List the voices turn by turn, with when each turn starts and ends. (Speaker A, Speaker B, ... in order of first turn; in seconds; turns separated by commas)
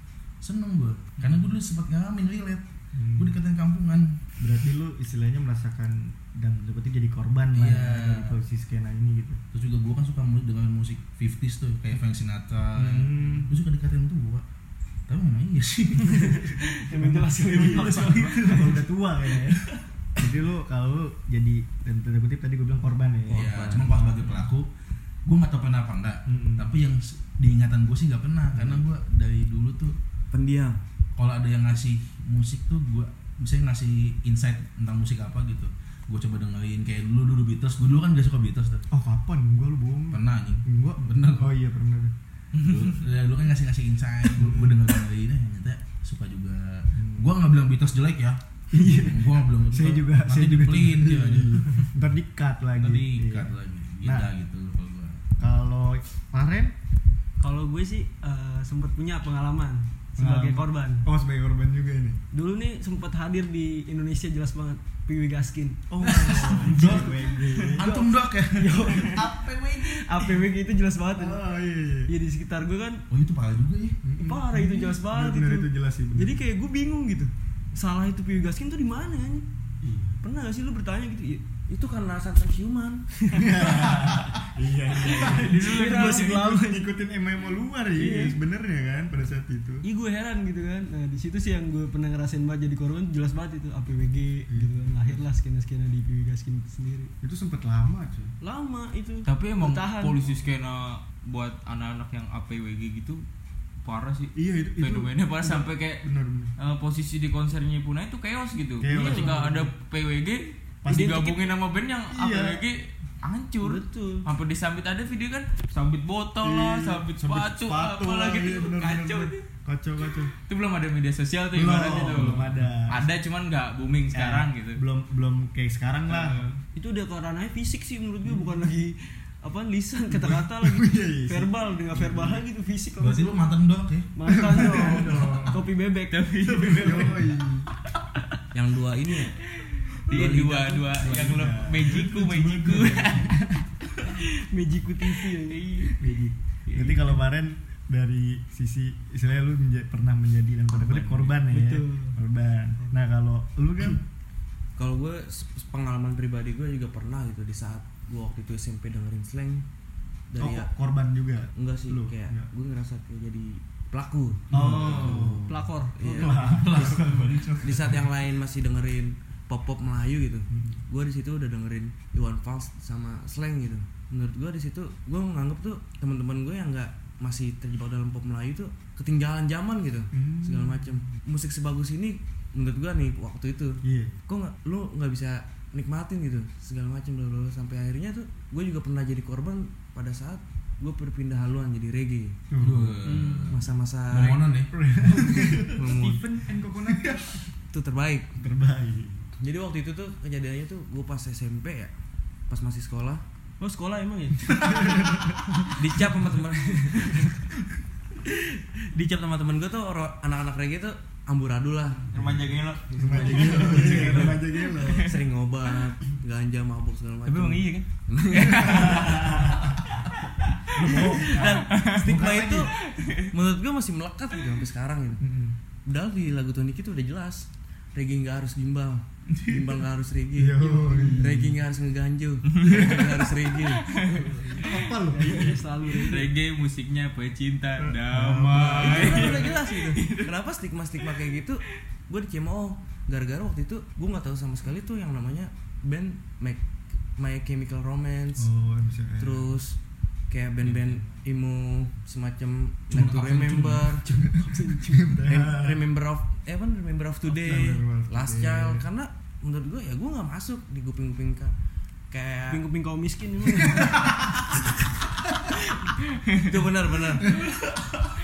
Speaker A: 0.4-2.6, Speaker B: 3.0-3.3, Speaker A: 3.2-4.2, Speaker B: 4.4-9.4, Speaker A: 7.5-8.4, Speaker A: 9.5-14.4, Speaker B: 12.8-13.6, Speaker A: 15.1-18.8, Speaker C: 16.1-18.8, Speaker B: 17.0-19.6, Speaker A: 19.4-19.8, Speaker B: 20.2-24.4, Speaker D: 23.3-24.0, Speaker A: 23.3-24.7, Speaker A: 25.2-29.9, Speaker B: 26.3-26.7, Speaker B: 28.5-28.8, Speaker D: 30.3-30.8, Speaker A: 31.2-38.8, Speaker B: 38.9-42.1, Speaker A: 40.1-41.5, Speaker A: 42.5-51.9, Speaker E: 42.6-43.0, Speaker B: 44.3-44.8, Speaker B: 47.0-47.3, Speaker B: 48.7-53.5, Speaker A: 52.8-55.2, Speaker B: 54.0-54.3, Speaker B: 55.4-56.7, Speaker C: 57.4-61.1, Speaker B: 60.2-62.2, Speaker C: 62.3-71.4, Speaker B: 65.9-67.8, Speaker A: 66.3-67.1, Speaker A: 67.7-69.2, Speaker B: 69.2-70.2, Speaker B: 71.2-72.1, Speaker C: 72.1-73.0, Speaker A: 73.1-74.0, Speaker B: 74.0-76.4, Speaker C: 74.2-79.5, Speaker B: 79.8-80.2, Speaker C: 80.2-81.4, Speaker D: 81.7-83.0, Speaker C: 83.3-84.2, Speaker B: 83.3-89.8, Speaker C: 85.1-86.8, Speaker E: 85.2-86.3, Speaker C: 88.0-88.4, Speaker C: 89.8-97.1, Speaker B: 94.5-95.2, Speaker B: 97.2-98.3, Speaker C: 98.4-100.2, Speaker E: 99.3-103.2, Speaker E: 103.8-106.0, Speaker B: 104.3-106.5, Speaker E: 106.6-119.5, Speaker B: 108.8-109.7, Speaker C: 108.9-109.5, Speaker B: 110.8-111.3, Speaker C: 110.9-111.5, Speaker B: 112.1-112.6, Speaker C: 113.6-114.2, Speaker B: 116.4-120.3, Speaker E: 120.5-124.8, Speaker B: 121.5-123.1, Speaker C: 121.8-122.3, Speaker B: 124.1-126.4, Speaker E: 126.1-126.6, Speaker C: 126.8-133.4, Speaker B: 130.1-132.4, Speaker A: 133.0-134.1, Speaker C: 134.2-137.4, Speaker B: 134.3-135.6, Speaker E: 136.1-137.2, Speaker B: 136.7-137.7, Speaker D: 138.5-139.4, Speaker E: 139.6-143.5, Speaker D: 140.1-141.4, Speaker B: 141.0-143.5, Speaker C: 144.1-146.0, Speaker B: 146.0-154.0, Speaker C: 146.7-147.2, Speaker E: 150.7-151.3, Speaker C: 151.5-152.2, Speaker D: 154.8-159.7, Speaker D: 160.3-160.7, Speaker B: 160.4-162.5, Speaker D: 161.6-165.5, Speaker A: 164.5-165.2, Speaker B: 164.5-168.0, Speaker C: 165.5-166.3, Speaker D: 166.0-192.4, Speaker A: 166.1-168.0, Speaker B: 170.5-170.8, Speaker B: 180.1-181.2, Speaker B: 183.8-184.1, Speaker B: 192.5-193.2, Speaker A: 192.6-194.8, Speaker D: 193.2-196.2, Speaker B: 194.7-197.5, Speaker D: 197.7-198.4, Speaker B: 198.4-199.3, Speaker D: 199.4-201.9, Speaker D: 202.5-203.2, Speaker C: 203.6-205.7, Speaker B: 204.7-205.3, Speaker D: 205.7-207.3, Speaker D: 208.9-212.2, Speaker E: 212.1-215.0, Speaker B: 212.9-215.1, Speaker D: 212.9-214.4, Speaker D: 215.0-219.8, Speaker E: 217.2-219.6, Speaker B: 218.5-219.7, Speaker E: 220.5-222.1, Speaker A: 220.8-221.4, Speaker B: 220.8-222.7, Speaker D: 220.8-225.2, Speaker E: 222.7-223.3, Speaker B: 225.2-225.6, Speaker D: 225.9-233.9, Speaker A: 229.3-229.8, Speaker B: 230.4-231.5, Speaker C: 230.9-231.2, Speaker E: 232.6-233.0, Speaker B: 232.7-233.0, Speaker E: 233.9-234.5, Speaker C: 234.0-236.3, Speaker B: 234.5-235.6, Speaker E: 236.0-240.3, Speaker B: 237.8-239.5, Speaker D: 238.8-248.5, Speaker B: 248.4-249.5, Speaker D: 249.2-254.1, Speaker A: 250.6-251.0, Speaker A: 252.9-253.8, Speaker C: 253.0-255.3, Speaker B: 254.9-255.9, Speaker D: 255.3-261.5, Speaker B: 257.3-258.9, Speaker D: 262.1-262.6, Speaker C: 262.5-264.0, Speaker B: 263.6-264.2, Speaker D: 266.4-267.5